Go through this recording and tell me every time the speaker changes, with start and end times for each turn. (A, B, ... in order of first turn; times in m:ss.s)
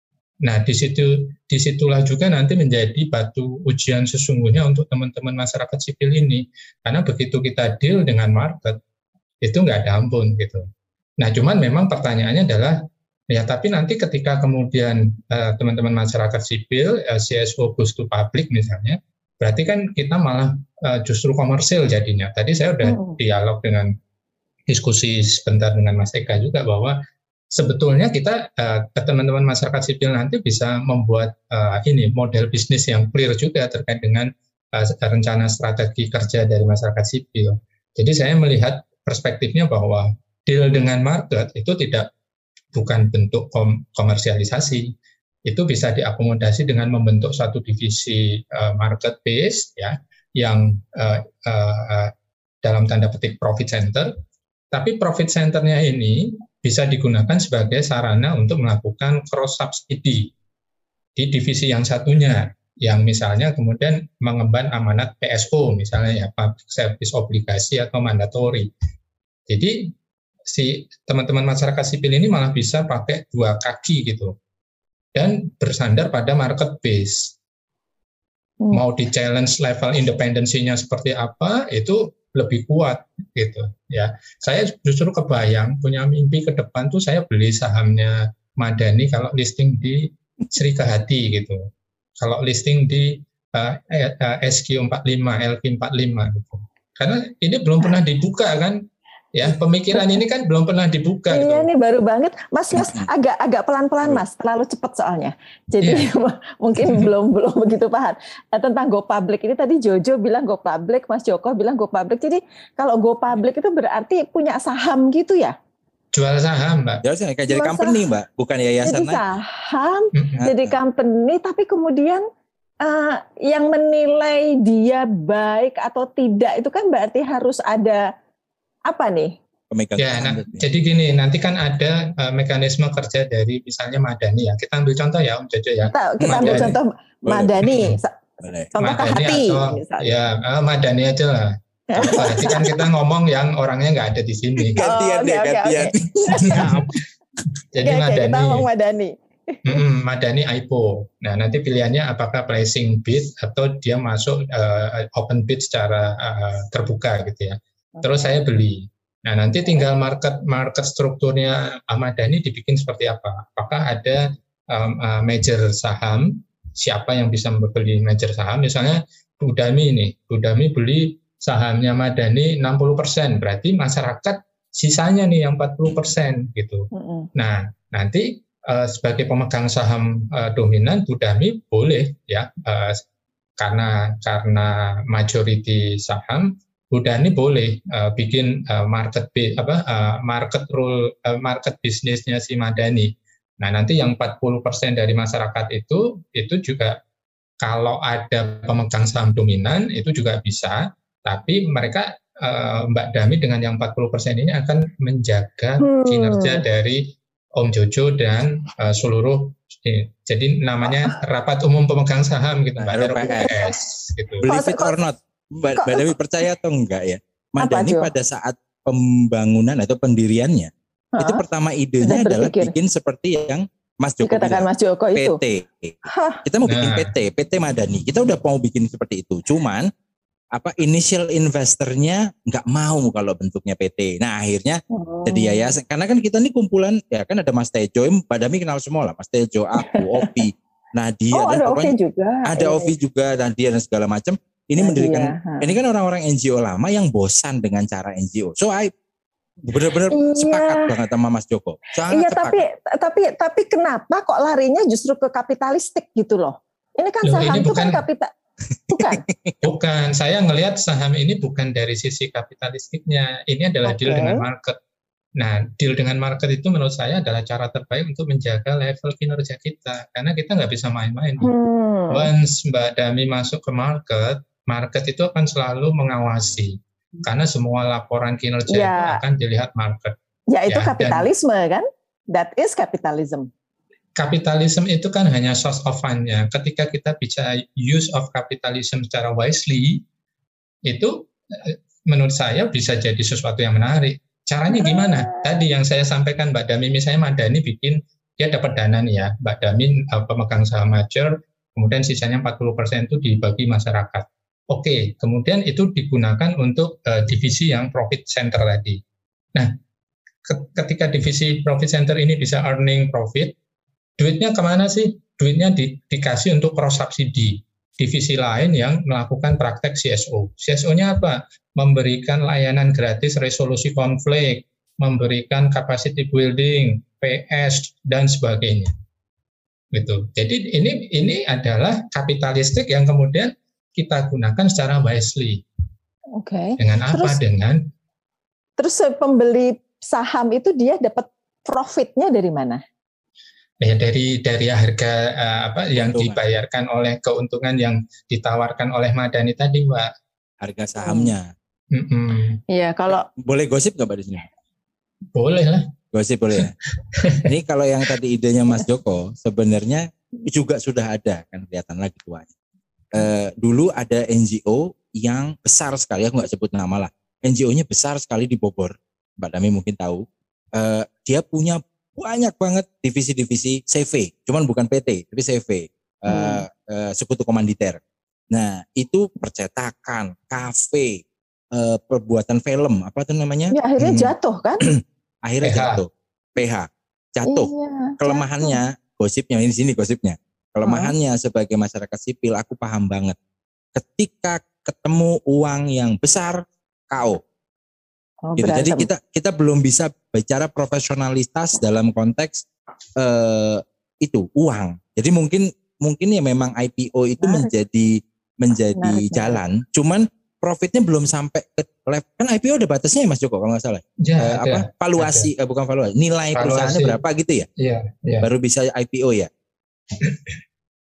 0:00.4-0:08.8 A
0:09.4-0:10.6 A
0:11.2-0:12.8 A
0:13.3-0:23.9 A
0:22.8-0:23.2 B
0:24.7-0:27.0 A
0:27.5-0:42.1 A
0:42.7-0:44.9 A
0:45.4-0:54.1 A
0:54.7-1:00.3 A
1:01.2-1:08.7 A
1:09.5-1:09.9 A
1:10.5-1:14.3 A
1:15.1-1:17.3 A
1:18.7-1:31.6 A
1:32.2-1:38.8 A
1:39.3-1:41.7 A
1:39.9-1:40.2 B
1:41.3-1:55.5 B
1:42.7-1:43.1 C
1:45.8-1:46.1 A
1:46.8-1:47.1 A
1:56.1-1:57.0 A
1:57.0-1:59.2 C
1:57.5-1:58.0 B
1:58.8-2:02.2 B
2:00.1-2:00.4 A
2:00.4-2:00.7 C
2:02.8-2:08.0 B
2:08.9-2:09.4 B
2:09.7-2:10.6 C
2:10.0-2:16.8 A
2:15.9-2:18.2 B
2:16.2-2:16.7 C
2:17.3-2:17.7 C
2:17.6-2:18.0 A
2:18.4-2:18.7 C
2:18.7-2:20.1 B
2:18.8-2:24.8 A
2:21.9-2:22.8 B
2:22.0-2:22.6 C
2:24.7-2:26.9 C
2:24.8-2:26.8 B
2:26.4-2:27.0 A
2:27.7-2:28.7 A
2:27.8-2:29.8 B
2:29.6-3:03.0 A
2:38.0-2:38.4 B
2:56.9-2:57.3 B
3:03.6-3:17.0 A
3:17.6-3:34.4 A
3:25.8-3:26.6 B
3:32.8-3:33.5 C
3:34.4-3:49.9 C
3:34.4-3:35.0 B
3:35.8-3:36.1 B
3:37.6-3:38.1 B
3:41.2-3:41.4 B
3:42.0-3:42.7 B
3:44.2-3:45.4 B
3:46.1-3:46.4 B
3:46.6-3:47.1 A
3:50.5-4:01.9 C
3:54.9-3:55.7 B
3:59.8-4:00.4 B
4:01.3-4:02.9 B
4:02.4-4:08.9 C
4:04.8-4:05.8 B
4:09.7-4:12.6 C
4:10.1-4:10.9 B
4:12.1-4:18.3 B
4:17.2-4:18.0 A
4:18.9-4:19.6 C
4:18.9-4:19.2 B
4:19.6-4:24.8 A
4:23.8-4:24.4 B
4:25.4-4:31.5 A
4:31.4-4:32.3 B
4:32.1-4:40.2 A
4:38.7-4:39.2 B
4:40.5-4:43.5 B
4:40.7-4:41.3 A
4:44.2-4:50.0 A
4:50.8-5:09.0 A
4:54.8-4:55.2 B
5:10.4-5:13.5 A
5:14.2-5:28.9 A
5:29.9-5:35.6 A
5:36.4-5:37.4 B
5:36.8-5:37.8 A
5:38.8-5:42.8 B
5:43.8-5:50.1 A
5:45.9-5:46.4 C
5:50.6-5:51.5 C
5:51.0-5:51.3 B
5:51.9-5:52.6 A
5:52.7-5:53.3 B
5:53.4-5:54.5 C
5:55.3-5:55.8 A
5:56.1-5:56.7 C
5:56.6-5:57.5 A
5:57.4-6:02.5 C
6:03.1-6:18.0 C
6:16.3-6:16.6 B
6:18.5-6:21.2 C
6:21.7-6:33.4 C
6:23.7-6:24.9 B
6:25.6-6:26.0 A
6:27.4-6:28.8 B
6:30.8-6:31.1 B
6:33.9-6:37.4 C
6:38.4-6:39.1 B
6:38.6-6:42.6 C
6:43.2-6:57.7 C
6:47.4-6:47.7 B
6:49.0-6:49.6 B
6:54.2-6:55.5 A
6:56.5-6:57.2 A
6:57.8-6:58.4 A
6:58.4-6:59.5 C
7:00.2-7:00.5 A